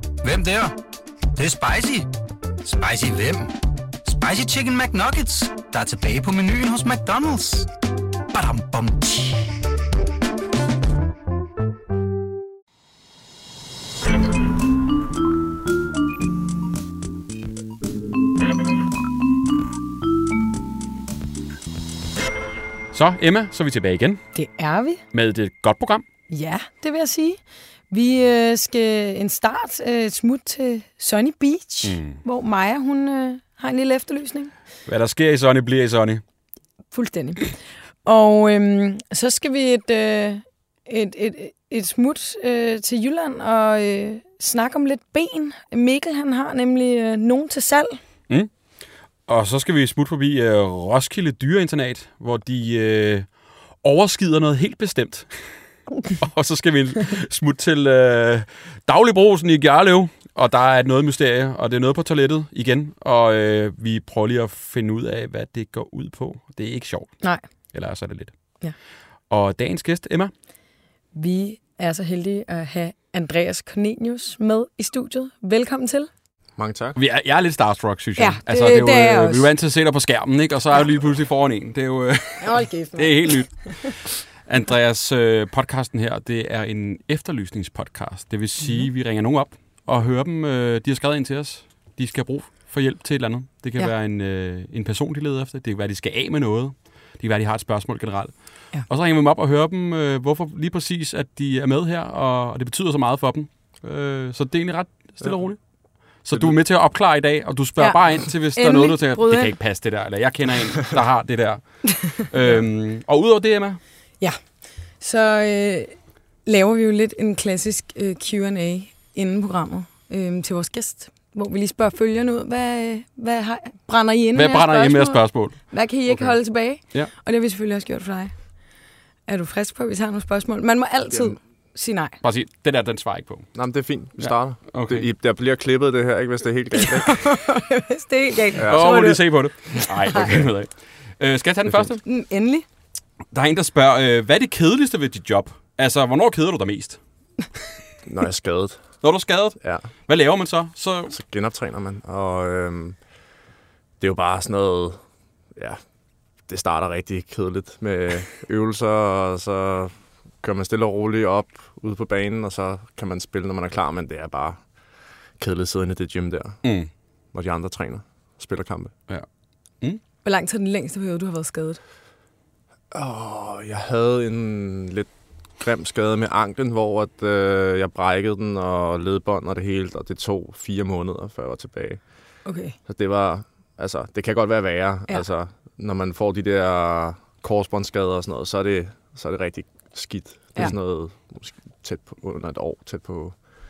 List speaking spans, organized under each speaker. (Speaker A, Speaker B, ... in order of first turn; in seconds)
Speaker A: 0.2-0.8, 1.4-2.1, 2.6-3.5, 4.0-7.7, 8.3-9.5
Speaker B: 22.9-24.2, 25.1-26.0, 31.8-32.2, 34.9-36.2, 49.3-53.3, 53.8-55.5, 56.2-67.2, 67.7-68.3, 69.3-70.3, 77.0-105.6, 106.2-113.8, 124.3-125.6, 132.2-133.5, 134.2-135.1, 138.7-142.0, 143.3-147.0, 149.0-151.2, 166.6-166.9
Speaker C: 24.4-25.0, 26.3-27.4, 27.9-34.5, 36.9-48.0, 71.1-76.1, 78.2-79.5, 82.4-83.7, 88.6-88.9, 107.8-109.5, 115.0-115.9, 116.5-128.3, 129.3-132.2, 136.8-139.2, 140.0-140.3, 142.0-142.7, 170.2-171.8, 182.4-182.8
Speaker D: 76.6-77.0, 133.5-137.3, 138.5-139.1, 141.7-141.9, 148.1-148.8, 149.6-149.9, 151.1-153.0, 154.0-155.0, 156.5-164.6, 165.4-166.7, 167.3-168.9, 172.9-182.0, 182.8-193.3